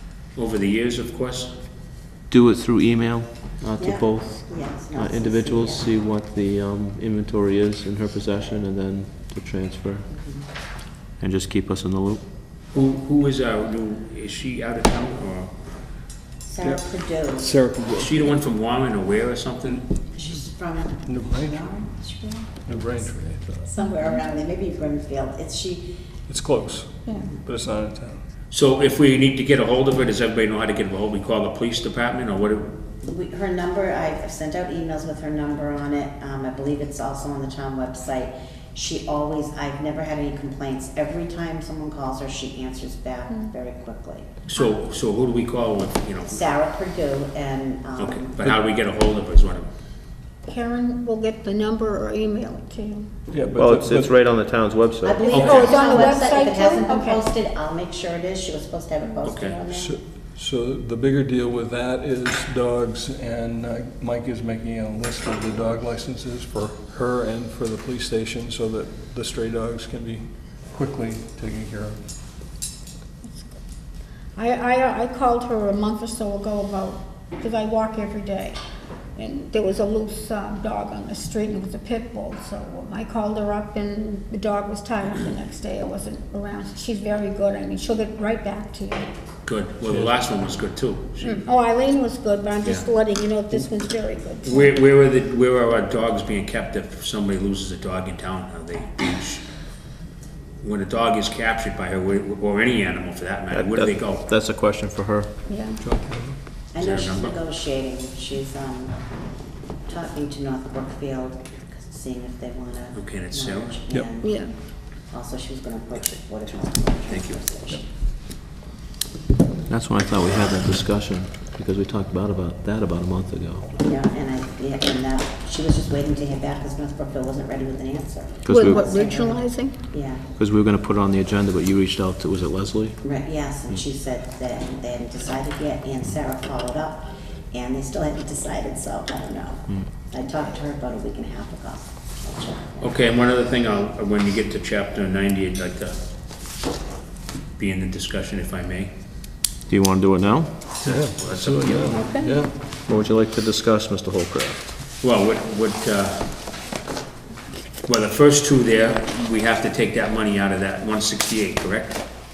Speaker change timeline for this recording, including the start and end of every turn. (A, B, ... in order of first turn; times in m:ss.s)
0:00.3-0:01.5 A
0:02.3-0:10.1 B
0:03.8-0:05.8 C
0:10.1-0:10.4 C
0:11.2-0:12.2 B
0:12.7-0:15.5 A
0:16.4-0:17.5 C
0:16.6-0:18.4 D
0:18.0-0:19.9 A
0:20.1-0:22.5 C
0:21.0-0:21.8 D
0:22.6-0:23.8 D
0:23.7-0:26.0 C
0:23.8-0:24.2 E
0:26.3-0:28.2 D
0:27.0-0:27.3 E
0:28.5-0:32.8 A
0:33.0-0:44.3 C
0:43.3-0:43.6 E
0:44.4-0:46.6 A
0:46.2-0:48.4 C
0:48.0-0:49.7 A
0:50.5-0:53.1 E
0:53.3-0:54.2 D
0:53.6-0:55.3 B
0:55.0-0:59.9 C
0:55.3-0:57.2 E
0:55.3-0:55.9 A
0:59.2-0:59.6 A
0:59.6-1:12.0 D
1:13.2-1:13.5 E
1:14.4-1:18.6 E
1:19.2-1:29.1 E
1:29.4-1:31.5 A
1:31.2-1:34.8 E
1:34.4-1:39.4 A
1:40.6-1:44.3 A
1:43.5-1:45.3 B
1:45.5-1:45.8 E
1:45.8-1:46.4 D
1:46.7-1:49.3 C
1:46.8-1:47.4 A
1:49.9-1:57.8 C
1:52.9-1:53.8 A
1:54.2-1:54.6 E
1:56.0-1:57.5 A
1:59.7-2:03.7 B
2:03.8-2:10.2 C
2:08.4-2:08.9 B
2:08.5-2:09.8 E
2:10.2-2:13.0 B
2:13.0-2:23.0 C
2:22.8-2:26.0 A
2:27.6-2:28.9 A
2:29.7-2:30.9 B
2:30.8-2:32.6 D
2:30.9-2:32.0 A
2:31.9-2:32.4 E
2:32.6-2:34.6 B
2:35.0-2:36.3 A
2:37.8-2:42.0 A